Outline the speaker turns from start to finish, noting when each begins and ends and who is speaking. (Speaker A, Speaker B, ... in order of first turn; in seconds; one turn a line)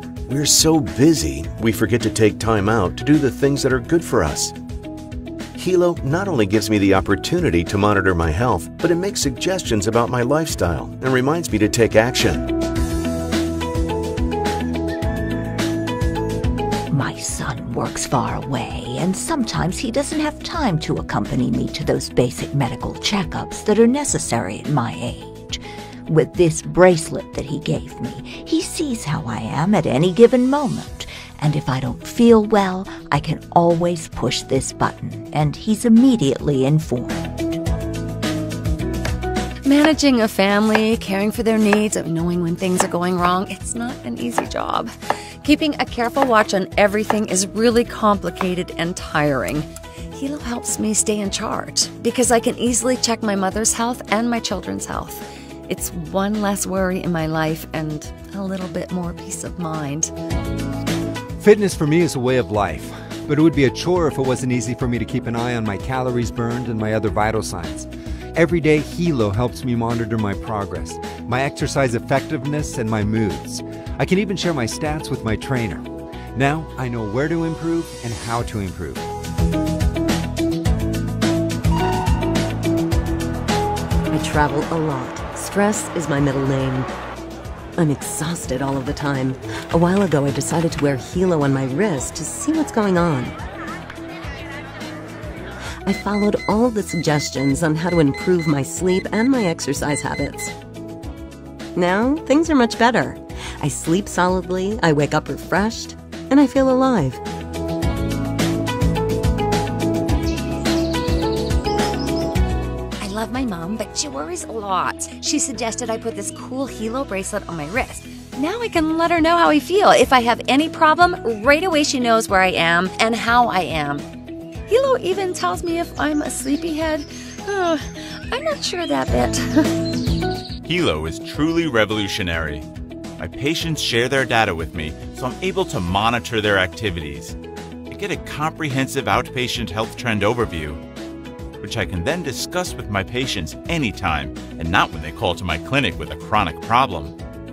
Speaker A: 0.3-4.5
Speaker A: 5.6-12.5
Speaker B: 16.9-37.3
Speaker C: 39.6-44.9
Speaker C: 45.4-60.1
Speaker D: 61.4-79.0
Speaker E: 84.1-86.9
Speaker E: 87.8-93.4
Speaker E: 95.8-100.5
Speaker E: 101.8-107.2
Speaker C: 113.0-124.0
Speaker C: 124.7-129.7
Speaker F: 130.6-132.7
Speaker F: 133.2-137.4
Speaker F: 137.9-140.8
Speaker F: 141.6-147.2